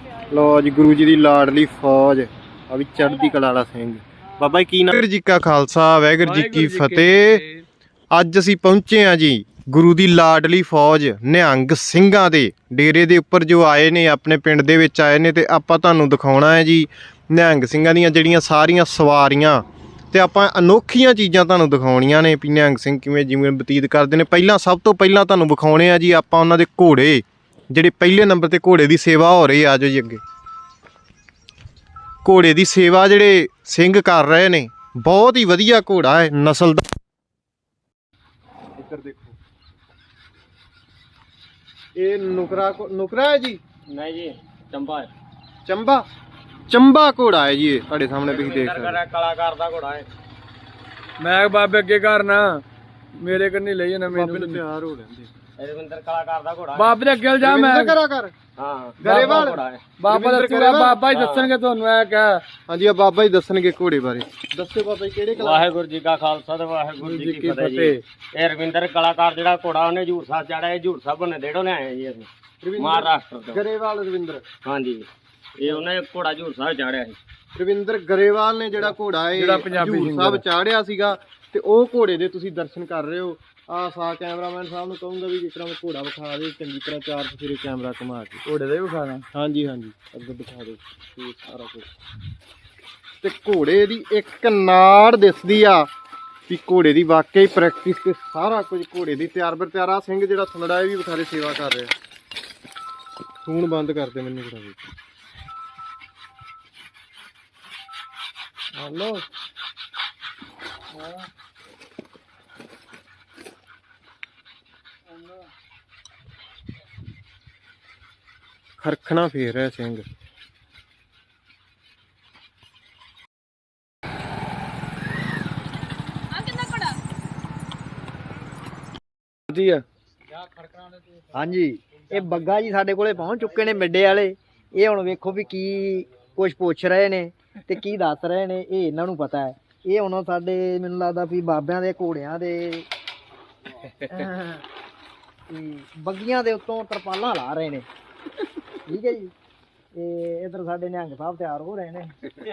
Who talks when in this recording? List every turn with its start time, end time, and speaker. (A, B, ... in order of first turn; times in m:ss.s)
0:00.3-0:07.4 A
0:06.2-0:07.6 B
0:08.1-0:30.2 A
0:32.2-0:36.9 A
0:38.8-0:39.3 A
0:42.0-0:43.6 A
0:43.9-0:45.1 C
0:45.6-0:46.0 A
0:46.7-0:49.0 A
0:48.2-0:50.0 C
0:51.2-0:52.6 B
0:53.2-0:54.6 B
0:54.1-0:55.3 A
0:55.6-0:57.0 C
0:56.8-0:57.9 B
0:57.4-0:58.3 A
0:58.6-0:59.8 C
0:59.0-1:01.0 A
0:59.0-0:59.4 B
1:00.0-1:02.4 B
1:01.1-1:01.5 C
1:02.7-1:05.6 A
1:05.3-1:13.6 C
1:07.1-1:08.0 B
1:12.6-1:14.4 A
1:14.6-1:15.1 C
1:15.6-1:17.2 C
1:17.5-1:28.4 A
1:19.3-1:20.4 B
1:28.4-1:29.2 B
1:29.3-1:31.9 A
1:33.2-1:35.9 A
1:36.5-1:41.9 A
1:43.4-1:44.8 A
1:48.8-1:49.2 A
1:58.8-2:00.0 A
2:09.5-2:09.8 B
2:11.3-2:22.8 D
2:24.1-2:24.6 D
2:25.5-2:27.9 D
2:28.9-2:29.3 D
2:30.0-2:32.1 D